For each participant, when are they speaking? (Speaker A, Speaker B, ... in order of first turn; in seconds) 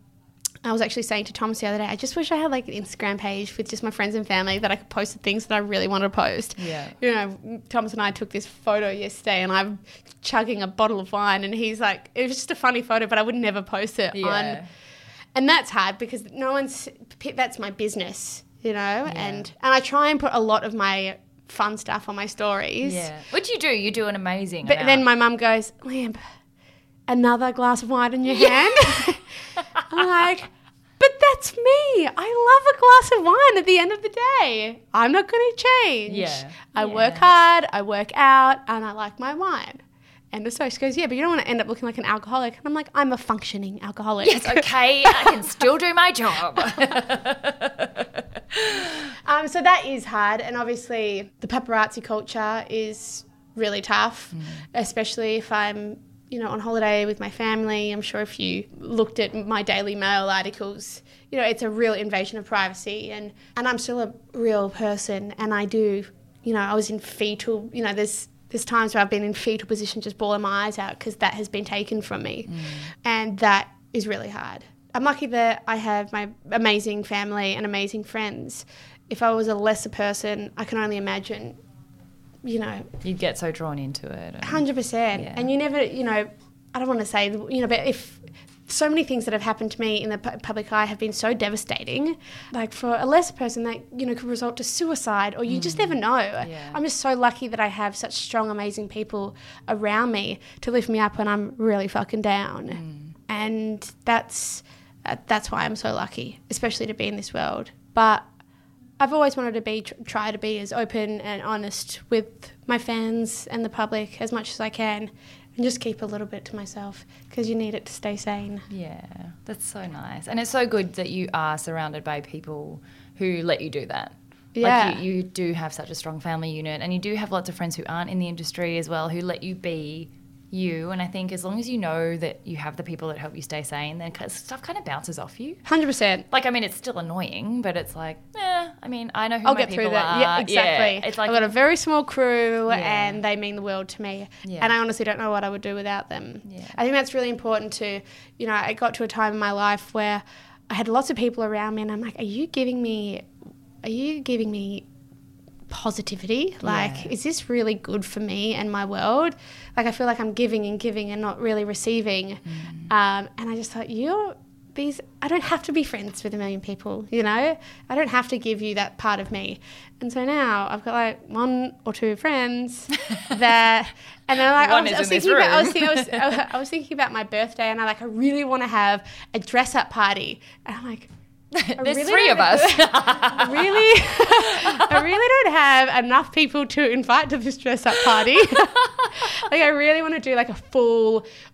Speaker A: 0.6-14.6, 15.3-23.1, 24.6-26.2, 27.1-29.3, 29.9-45.4, 49.2-81.6, 82.4-82.9, 84.4-108.2, 109.0-118.7, 124.5-125.0, 135.7-136.2, 139.4-153.3, 153.8-154.8, 155.7-181.1, 181.8-191.2
Speaker B: 6.6-6.9, 14.1-14.7, 19.1-19.5, 22.8-25.0, 29.7-30.0, 36.1-37.3, 44.2-49.1, 54.3-54.6, 72.5-72.9, 83.0-85.5, 95.5-96.8, 102.7-103.1, 118.7-135.6, 136.3-141.5, 142.7-143.2, 144.4-144.7, 146.4-146.8, 156.6-157.1, 162.5-162.9, 174.5-176.3, 181.5-185.0, 188.6-189.2